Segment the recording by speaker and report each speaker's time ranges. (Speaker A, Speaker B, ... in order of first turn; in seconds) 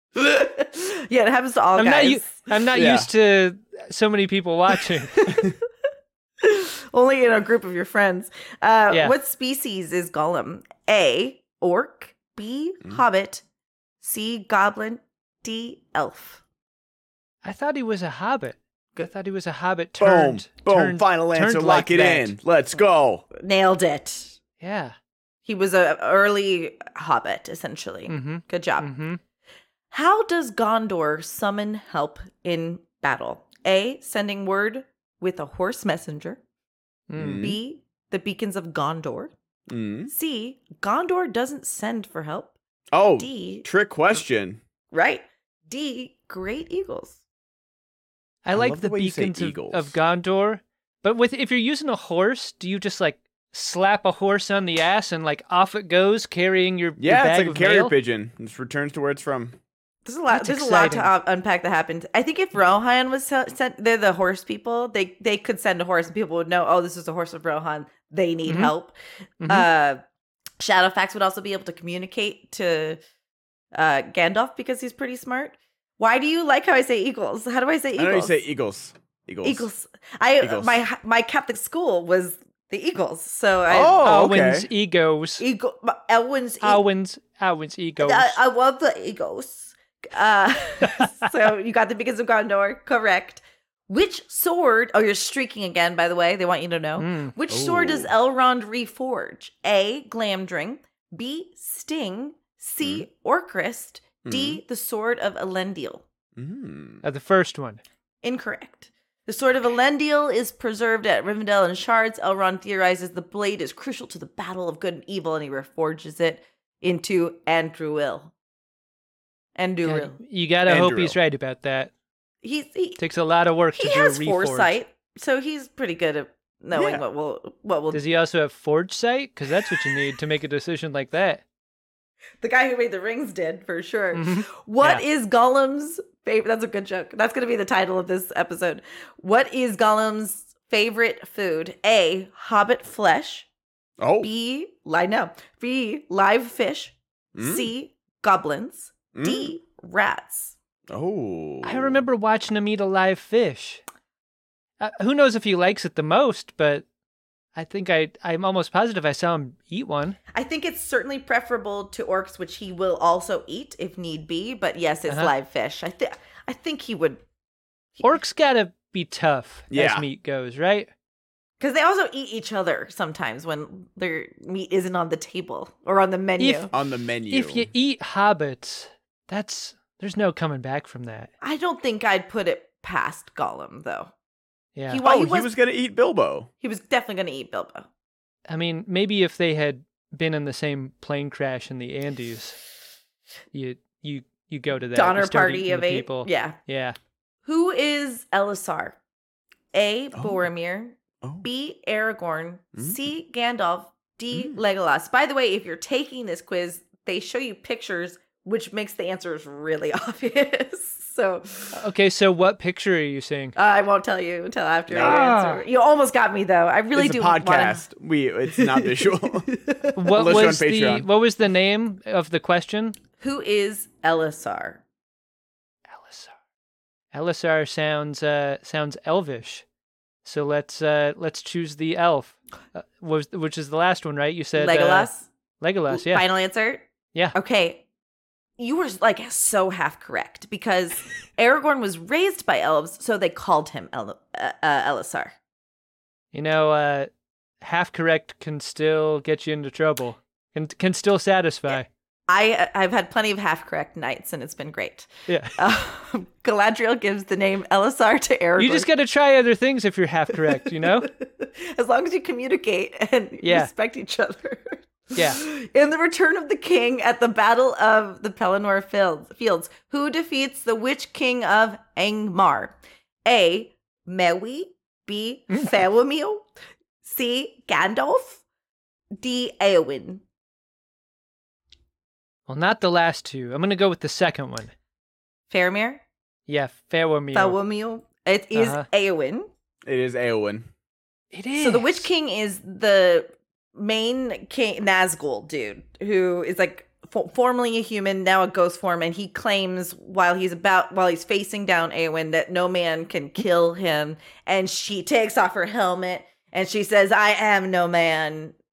Speaker A: 0.1-2.5, 5.2-5.5, 6.4-13.4, 14.0-16.4, 23.3-24.4, 25.4-28.9, 29.9-36.4, 37.4-39.3, 40.1-42.5, 43.2-43.6, 44.9-47.2, 60.0-69.0, 69.5-70.0, 70.6-73.0, 73.7-78.4, 79.4-84.0, 85.4-86.8, 88.0-106.0, 108.2-118.3, 119.6-120.2, 122.4-123.0, 123.8-128.0, 132.4-143.5, 144.2-150.6, 160.3-167.2, 171.6-176.7, 181.4-184.1, 184.9-185.5, 186.6-187.9, 194.9-196.6, 197.5-199.0, 199.7-211.8, 213.6-217.9, 218.5-220.2, 223.2-224.8, 234.6-235.3, 235.9-237.8, 238.6-245.3, 251.7-258.9, 260.6-276.5, 277.0-278.4, 279.2-280.2, 285.5-286.0, 287.3-289.5, 291.6-308.6
Speaker B: 1.8-5.3, 8.9-9.1, 17.4-22.4, 24.6-25.0, 28.1-29.2, 37.1-37.5, 48.4-57.9, 60.3-61.1, 68.5-68.7, 69.4-69.7, 84.0-85.4, 86.6-88.4, 90.9-91.1, 97.0-97.3, 107.0-107.8, 119.8-121.9, 123.0-124.8, 127.9-131.4, 134.1-135.0, 151.6-153.8, 154.8-156.8, 157.6-160.2, 165.1-165.3, 168.0-170.9, 176.4-176.7, 177.3-181.3, 184.8-185.0, 188.5-192.6, 193.5-197.0, 211.7-213.6, 215.0-215.6, 220.0-223.0, 225.9-226.3, 227.1-229.6, 230.2-235.1, 235.6-236.3, 246.3-251.9, 255.3-255.6, 258.6-261.1, 263.4-263.7, 265.1-265.4, 282.5-284.7, 286.5-287.6, 288.6-288.9, 291.3-292.1
Speaker C: 2.7-3.1, 20.0-23.3, 37.2-37.6, 39.7-40.1, 42.9-44.6, 48.5-49.9, 57.0-59.6, 78.0-79.7, 80.4-80.8, 83.7-84.7, 97.5-98.1, 104.2-104.6, 106.4-107.0, 120.7-121.2, 126.7-127.0, 144.0-144.3, 147.4-147.7, 149.1-149.5, 150.9-152.0, 169.7-170.1, 176.7-177.7, 185.0-186.5, 200.1-200.4, 202.8-203.0, 204.3-204.6, 214.9-215.2, 216.9-219.5, 220.1-221.1, 289.9-290.7